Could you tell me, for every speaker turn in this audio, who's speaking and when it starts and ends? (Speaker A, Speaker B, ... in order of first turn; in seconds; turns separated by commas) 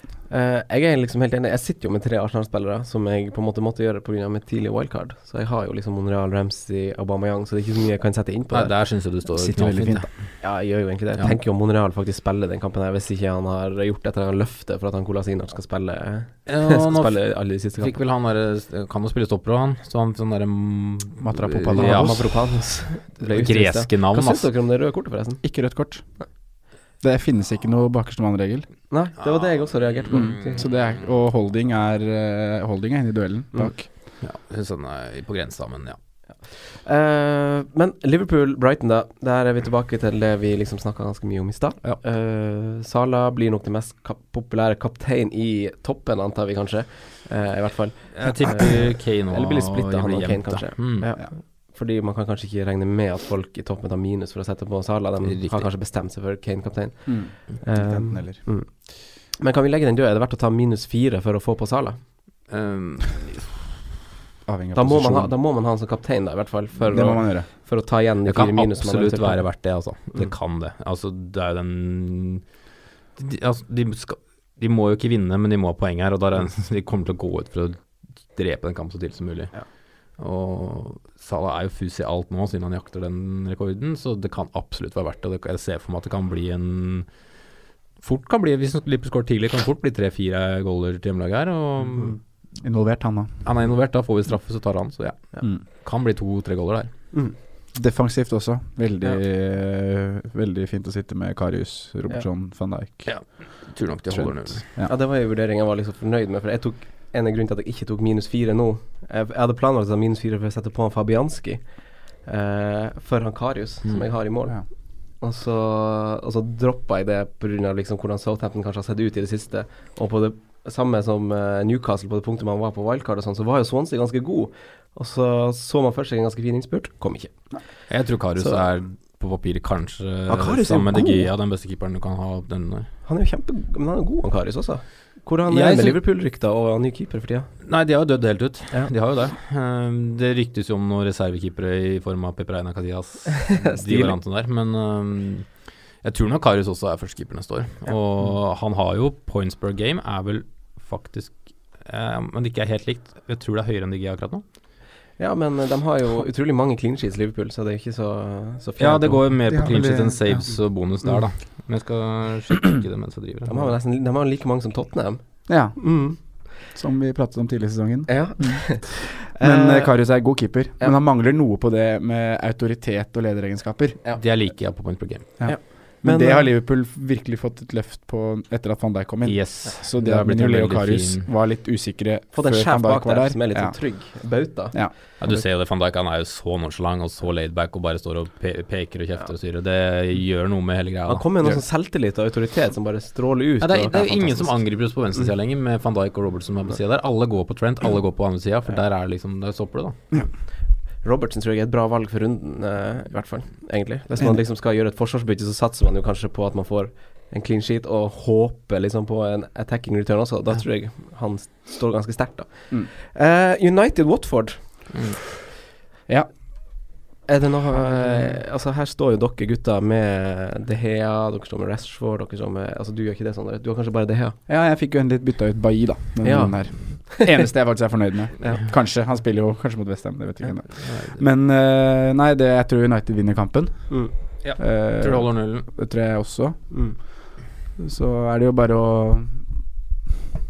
Speaker A: 0.3-8.7, Speaker B: 8.5-10.4, Speaker C: 9.3-10.1, Speaker A: 10.4-18.0, Speaker B: 16.5-24.5, Speaker C: 21.2-22.3, Speaker A: 21.8-25.4, Speaker C: 25.4-26.2, Speaker C: 27.0-28.7, Speaker A: 28.9-30.7, Speaker B: 29.2-30.8, Speaker C: 30.1-33.9, Speaker B: 34.2-36.0, Speaker A: 36.8-62.0, Speaker B: 48.1-51.1, Speaker B: 55.2-55.7, Speaker C: 57.1-58.4, Speaker B: 62.5-63.6, Speaker C: 64.5-65.3, Speaker A: 64.8-70.3, Speaker C: 66.9-67.5, Speaker B: 68.3-72.4, Speaker B: 73.2-87.2, Speaker B: 88.0-92.2, Speaker C: 92.6-93.4, Speaker B: 93.4-96.9, Speaker C: 97.7-103.5, Speaker B: 103.0-104.7, Speaker C: 104.1-105.0, Speaker A: 104.8-127.6, Speaker B: 127.9-132.9, Speaker A: 128.4-128.6, Speaker A: 130.3-131.3, Speaker A: 133.1-137.5, Speaker B: 135.5-136.0, Speaker B: 137.7-154.4, Speaker A: 143.4-144.2, Speaker A: 155.2-159.3, Speaker B: 158.8-163.7, Speaker C: 159.5-160.5, Speaker A: 163.5-166.2, Speaker C: 165.5-174.0, Speaker A: 168.1-171.0, Speaker A: 174.0-174.5, Speaker B: 174.2-175.4, Speaker C: 175.4-183.9, Speaker A: 175.4-176.5, Speaker B: 179.2-181.3, Speaker A: 182.3-184.8, Speaker C: 184.7-185.4, Speaker B: 185.2-191.6, Speaker A: 191.1-194.6, Speaker B: 193.6-200.0, Speaker A: 200.2-200.5, Speaker A: 201.0-214.9, Speaker B: 214.9-215.2, Speaker A: 217.3-224.4, Speaker C: 224.5-237.2, Speaker A: 226.2-227.3, Speaker B: 230.8-231.2, Speaker B: 234.4-235.7, Speaker A: 236.7-237.0, Speaker C: 237.8-239.5